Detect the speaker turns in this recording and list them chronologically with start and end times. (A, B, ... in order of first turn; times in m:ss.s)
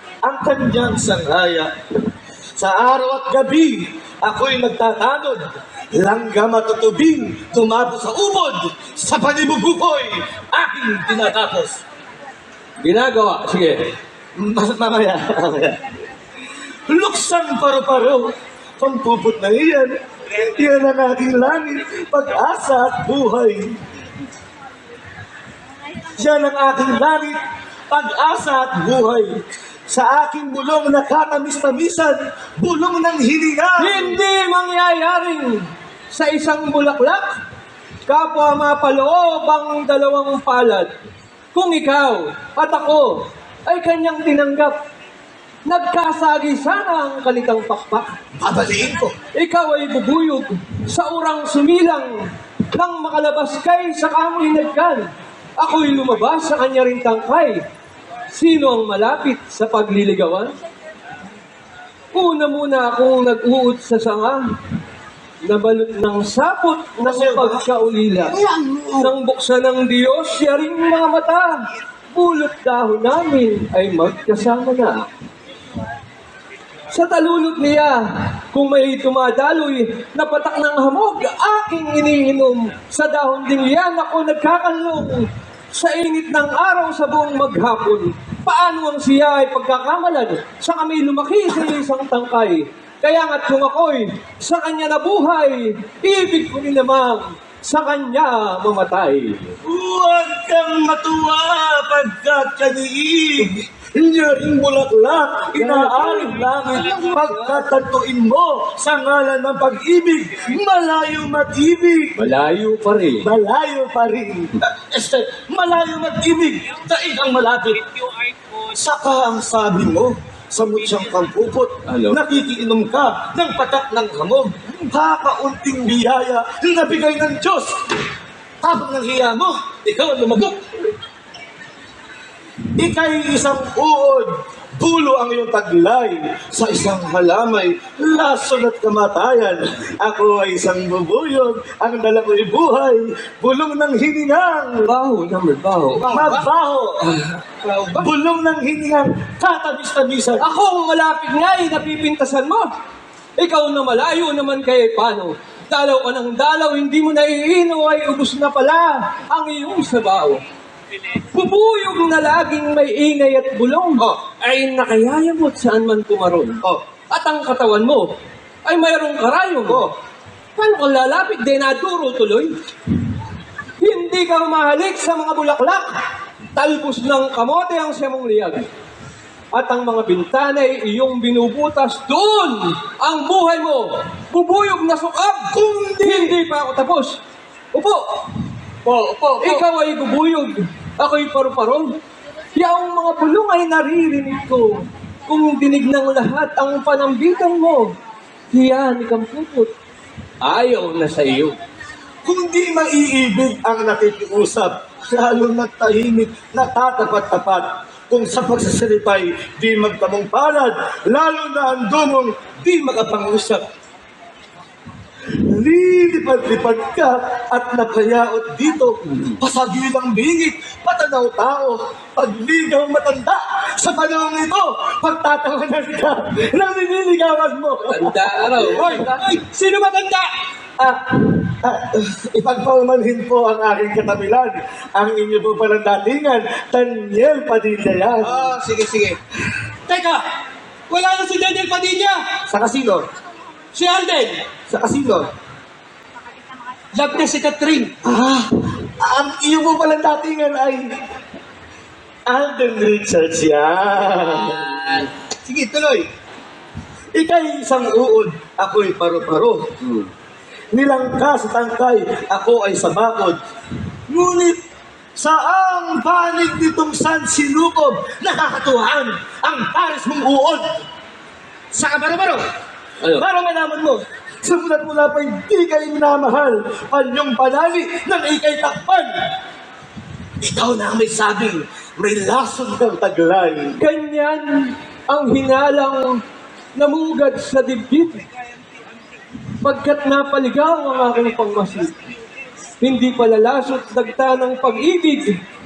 0:00.2-0:01.7 A
0:02.6-0:11.8 A
0:12.8-0:13.9 B
0:14.4-0:15.8 A
0:16.9-0:23.8 A
0:26.1-0:34.2 A
0:33.8-0:37.4 B
0:38.1-0:40.9 B
0:41.5-0:44.7 B
0:45.7-0:48.2 B
0:48.4-0:49.2 A
0:49.3-0:57.6 B
0:58.3-1:00.6 B
1:02.1-1:04.4 B
1:05.4-1:08.4 B
1:07.0-1:07.7 A
1:08.3-1:09.1 A
1:09.0-1:15.1 B
1:16.9-1:39.6 B
1:39.6-1:52.4 A
1:45.6-1:47.6 B
1:52.2-1:53.3 B
1:53.2-1:57.8 A
1:58.5-2:08.0 A
2:01.9-2:02.2 B
2:08.6-2:10.7 A
2:12.8-2:24.9 A
2:24.8-2:26.2 B
2:26.0-2:27.2 A
2:26.0-2:26.4 C
2:27.6-2:28.1 C
2:28.0-2:30.5 A
2:30.4-2:32.7 B
2:33.4-2:40.4 B
2:41.3-2:46.6 B
2:47.1-2:48.1 B
2:48.6-2:49.8 B
2:49.6-2:49.9 A
2:50.6-2:52.5 B
2:53.8-2:56.0 B
2:56.6-2:58.7 B
2:59.5-3:07.2 B
3:05.5-3:06.4 A
3:07.7-3:08.0 B
3:08.9-3:09.5 C
3:09.4-3:11.9 B
3:12.6-3:17.9 B
3:18.5-3:19.7 B
3:20.4-3:21.6 B
3:22.2-3:33.6 A
3:35.3-3:49.1 A
3:47.8-3:49.3 B
3:48.7-3:50.3 C
3:50.8-3:58.6 A
3:58.2-3:59.2 C
3:59.9-4:00.2 C
4:00.9-4:02.2 C
4:02.5-4:03.1 A
4:03.7-4:04.4 C
4:04.7-4:05.3 A
4:06.9-4:07.9 C
4:08.0-4:10.9 A
4:12.3-4:15.1 A
4:14.1-4:15.1 B
4:15.4-4:16.1 C
4:17.1-4:19.6 A
4:19.8-4:20.1 B
4:20.7-4:23.4 A
4:24.1-4:24.6 A
4:25.2-4:30.8 A
4:31.7-4:32.4 A
4:33.2-4:39.1 A
4:40.4-4:43.8 A
4:43.8-4:46.2 B
4:46.8-4:48.3 B
4:49.6-4:52.0 B
4:52.8-4:55.4 B